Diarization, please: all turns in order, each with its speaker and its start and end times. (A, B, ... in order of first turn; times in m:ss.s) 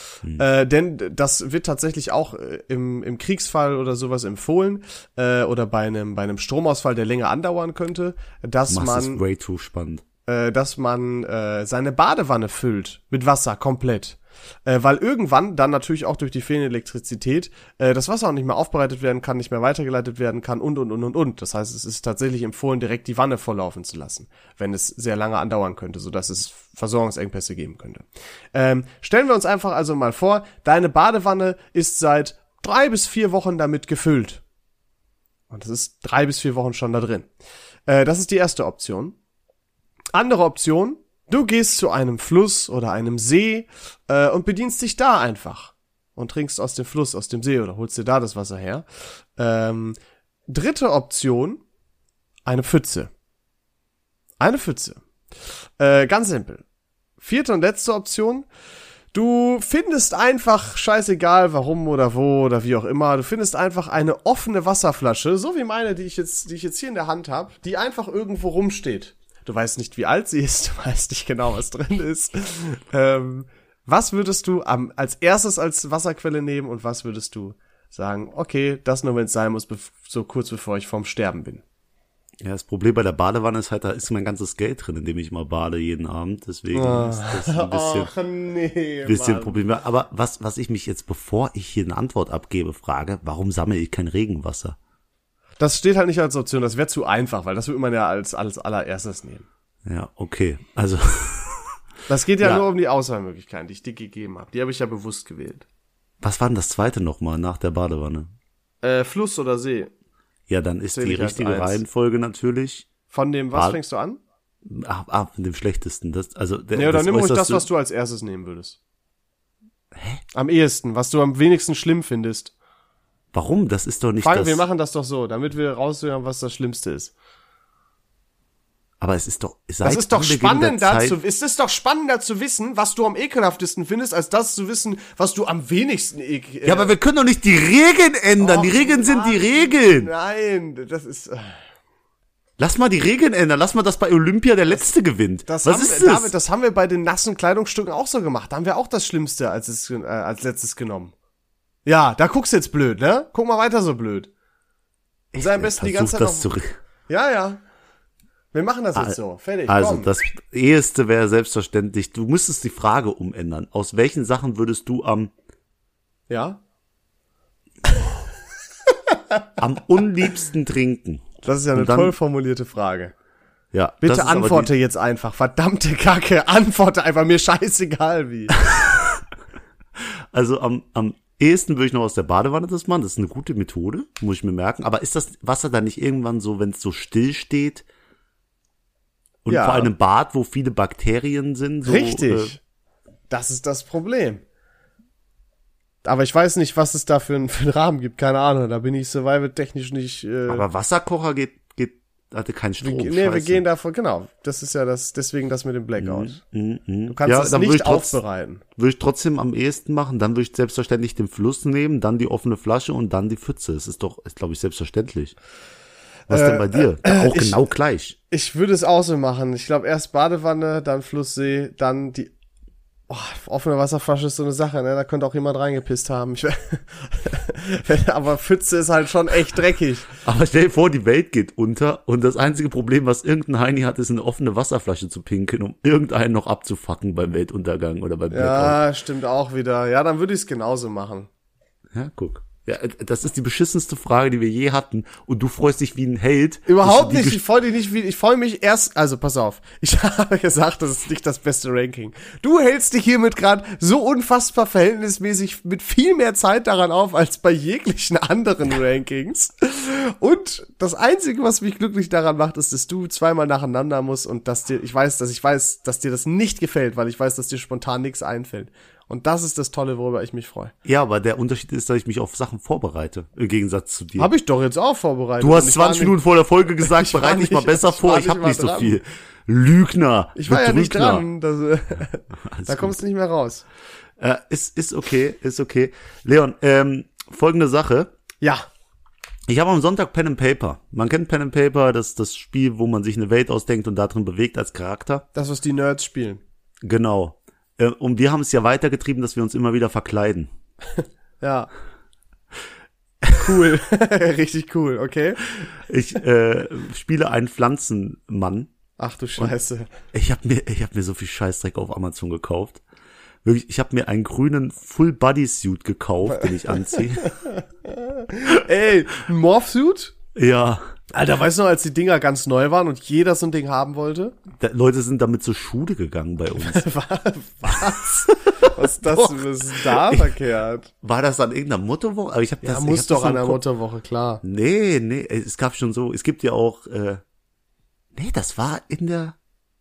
0:00.4-0:09.2 A
0:08.7-0:10.0 B
0:10.3-0:34.4 A
0:35.5-0:37.3 A
0:37.9-0:39.2 A
0:40.1-0:48.8 A
0:49.4-0:50.0 A
0:50.5-0:51.6 A
0:52.5-0:53.1 A
0:54.4-0:55.0 A
0:55.8-0:56.6 A
0:57.2-0:58.5 A
0:59.1-1:21.6 A
1:22.4-1:28.1 B
1:26.7-1:29.6 A
1:29.1-1:34.8 B
1:35.6-1:39.5 A
1:39.9-1:41.8 B
1:42.1-1:45.6 A
1:46.2-1:48.3 B
1:48.8-1:49.9 A
1:50.5-1:52.9 B
1:50.9-1:51.8 A
1:53.1-1:54.2 A
1:54.6-1:57.6 B
1:56.7-1:58.8 A
1:59.9-2:00.2 B
2:00.3-2:02.5 A
2:03.3-2:04.6 B
2:04.2-2:07.1 A
2:09.0-2:11.2 B
2:09.8-2:16.9 A
2:16.6-2:20.1 B
2:18.4-2:21.6 A
2:22.6-2:26.3 B
2:25.5-2:31.1 A
2:31.9-2:34.3 A
2:35.3-2:36.8 B
2:35.4-2:36.5 A
2:37.1-2:37.6 A
2:38.5-2:40.1 A
2:39.0-2:45.3 B
2:46.3-2:46.6 A
2:49.6-2:52.1 B
2:51.4-2:53.1 A
2:53.7-2:54.7 B
2:54.0-2:58.6 A
2:58.6-2:59.2 B
3:00.0-3:07.9 B
3:09.4-3:12.6 B
3:09.5-3:09.9 A
3:11.8-3:12.6 A
3:13.3-3:14.4 A
3:16.0-3:20.6 A
3:20.5-3:23.6 B
3:22.8-3:26.4 A
3:26.0-3:28.2 B
3:27.1-3:28.6 A
3:28.8-3:35.4 B
3:36.3-3:37.6 A
3:36.3-3:38.2 B
3:38.3-3:42.3 A
3:43.1-3:50.1 A
3:50.2-3:58.8 B
3:58.3-4:01.3 A
4:01.9-4:07.4 B
4:06.7-4:30.7 A
4:30.8-4:34.3 B
4:34.2-4:36.2 A
4:35.4-4:41.3 B
4:36.8-4:39.0 A
4:40.4-4:43.6 A
4:42.5-4:43.0 B
4:44.2-4:48.1 B
4:49.5-4:55.3 B
4:55.3-4:56.4 A
4:56.8-5:00.5 B
5:01.4-5:01.7 A
5:03.2-5:03.6 B
5:03.4-5:05.7 A
5:05.8-5:08.7 B
5:09.0-5:09.9 A
5:10.1-5:12.8 B
5:13.4-5:17.4 B
5:16.4-5:20.1 A
5:20.4-5:20.9 B
5:21.1-5:24.4 A
5:24.5-5:26.9 B
5:26.6-5:30.9 A
5:27.7-5:30.4 B
5:31.0-5:33.6 B
5:32.6-5:34.4 A
5:34.4-5:37.2 B
5:38.1-5:39.4 B